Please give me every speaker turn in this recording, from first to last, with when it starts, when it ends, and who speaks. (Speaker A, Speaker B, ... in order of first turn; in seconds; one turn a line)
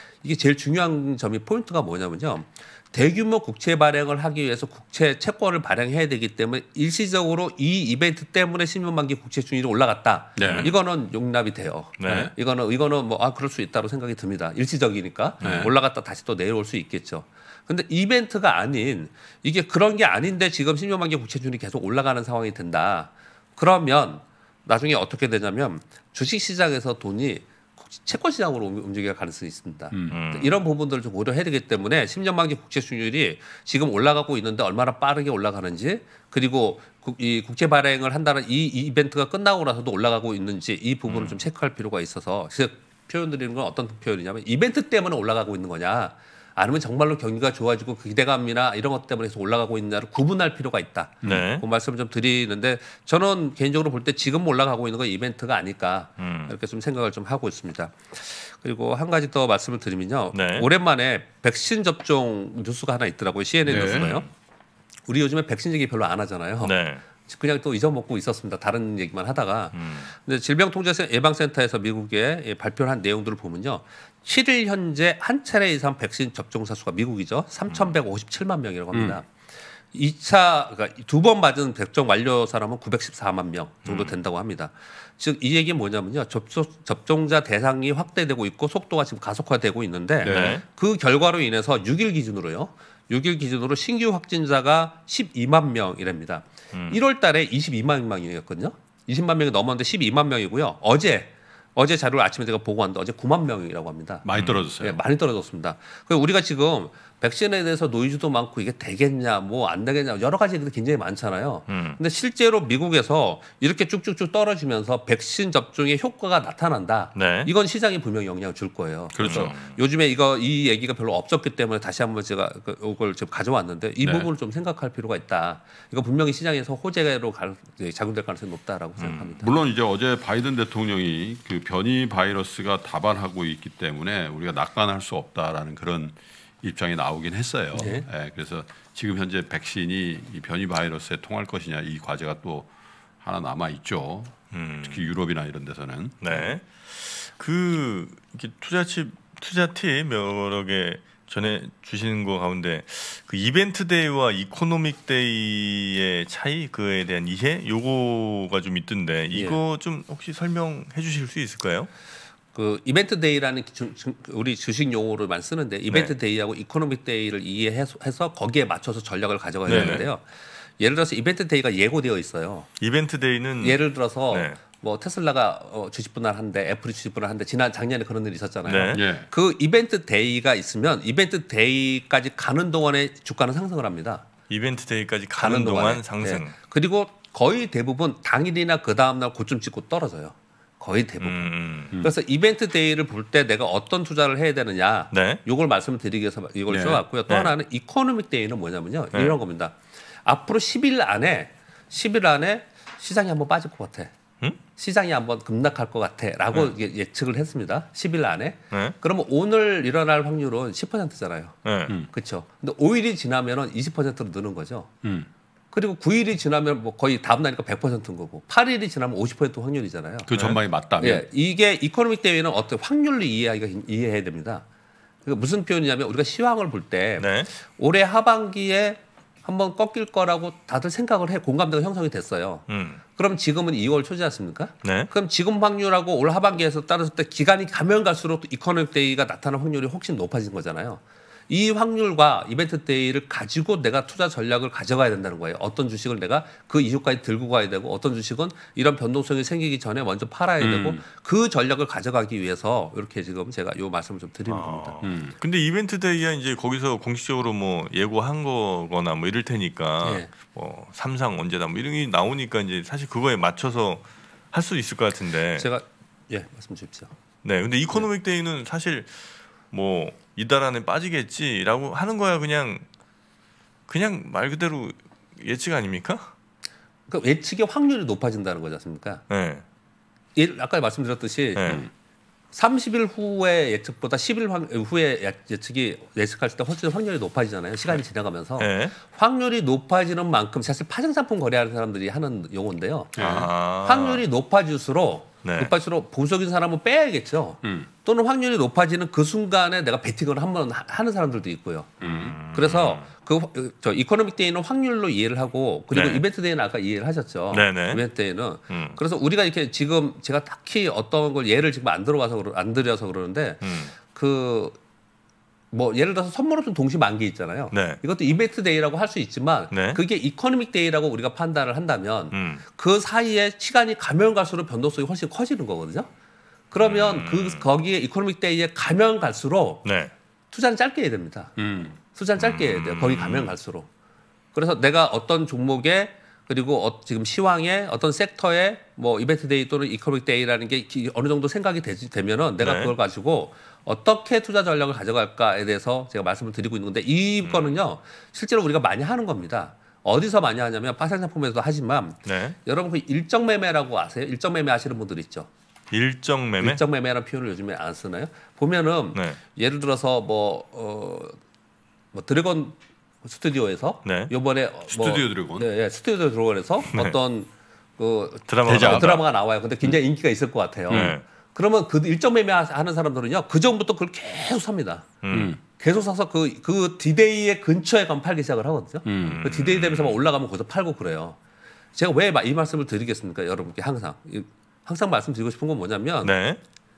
Speaker A: 0.2-64.3
Speaker B: 10.4-10.7
Speaker C: 10.4-10.7
Speaker C: 12.0-12.3
Speaker B: 12.1-12.3
Speaker C: 15.4-15.7
Speaker B: 15.4-15.7
Speaker B: 29.9-30.2
Speaker C: 30.1-30.6
Speaker C: 41.1-41.4
Speaker C: 51.2-51.6
Speaker C: 56.2-56.5
Speaker C: 60.3-60.7
Speaker B: 63.7-64.1
Speaker C: 63.7-64.3
Speaker A: 65.1-66.7
Speaker C: 66.6-67.0
Speaker A: 67.2-79.3
Speaker C: 69.7-70.1
Speaker B: 78.9-79.2
Speaker A: 79.9-104.2
Speaker C: 83.8-84.2
Speaker B: 90.2-90.6
Speaker C: 90.2-90.6
Speaker C: 96.7-97.0
Speaker B: 104.2-105.0
Speaker C: 104.3-104.6
Speaker A: 104.8-129.5
Speaker C: 111.7-112.0
Speaker C: 117.2-117.5
Speaker B: 119.1-119.5
Speaker C: 119.2-119.8
Speaker B: 124.0-124.3
Speaker C: 129.0-129.3
Speaker B: 129.4-142.7
Speaker A: 137.7-138.1
Speaker B: 143.2-146.2
Speaker C: 144.5-145.1
Speaker C: 146.2-161.9
Speaker A: 159.3-159.6
Speaker A: 162.5-170.2
Speaker C: 165.9-166.1
Speaker C: 169.7-170.1
Speaker B: 169.7-170.0
Speaker A: 170.8-172.7
Speaker C: 172.8-174.6
Speaker A: 173.6-184.3
Speaker C: 178.7-179.1
Speaker B: 178.9-179.3
Speaker C: 184.5-186.6
Speaker A: 185.4-204.1
Speaker C: 191.2-191.9
Speaker C: 195.1-195.4
Speaker B: 196.7-197.0
Speaker A: 204.8-211.6
Speaker C: 211.7-212.0
Speaker A: 212.1-214.9
Speaker B: 215.0-215.3
Speaker A: 215.7-220.3
Speaker B: 220.2-221.3
Speaker C: 220.3-220.6
Speaker A: 221.0-224.7
Speaker A: 225.2-255.0
Speaker C: 227.2-227.5
Speaker C: 232.7-233.0
Speaker C: 234.8-235.1
Speaker B: 250.6-251.0
Speaker C: 254.5-265.7
Speaker B: 255.0-255.3
Speaker A: 260.0-260.3
Speaker A: 265.6-267.1
Speaker C: 267.4-272.8
Speaker C: 273.9-276.3
Speaker A: 277.1-279.2
Speaker C: 279.3-279.6
Speaker A: 280.4-281.8
Speaker C: 281.6-281.8
Speaker A: 282.5-314.8
Speaker C: 288.6-288.9
Speaker B: 293.2-293.5
Speaker C: 293.2-294.2
Speaker C: 295.4-295.7
Speaker B: 297.6-297.9
Speaker B: 302.0-302.4
Speaker C: 302.1-303.1
Speaker C: 305.9-306.2
Speaker C: 307.5-308.0
Speaker C: 308.7-309.0
Speaker C: 313.6-313.9
Speaker A: 315.7-326.1
Speaker C: 317.7-318.0
Speaker C: 319.7-320.0
Speaker C: 322.3-322.6
Speaker A: 326.7-329.9
Speaker C: 326.8-327.7
Speaker C: 329.8-330.1
Speaker A: 330.5-333.9
Speaker B: 331.6-332.0
Speaker C: 332.4-333.6
Speaker A: 334.5-355.5
Speaker C: 342.6-342.9
Speaker C: 347.4-347.8
Speaker C: 352.2-352.6
Speaker C: 355.9-356.8
Speaker A: 356.6-361.4
Speaker A: 362.1-375.1
Speaker C: 364.1-364.3
Speaker B: 364.9-365.7
Speaker C: 366.9-367.2
Speaker C: 368.5-369.3
Speaker B: 368.6-369.2
Speaker B: 370.9-371.2
Speaker C: 370.9-371.2
Speaker C: 375.2-375.6
Speaker B: 375.3-375.6
Speaker A: 375.8-381.4
Speaker B: 379.1-379.4
Speaker C: 379.2-380.2
Speaker A: 381.9-386.3
Speaker C: 386.2-386.6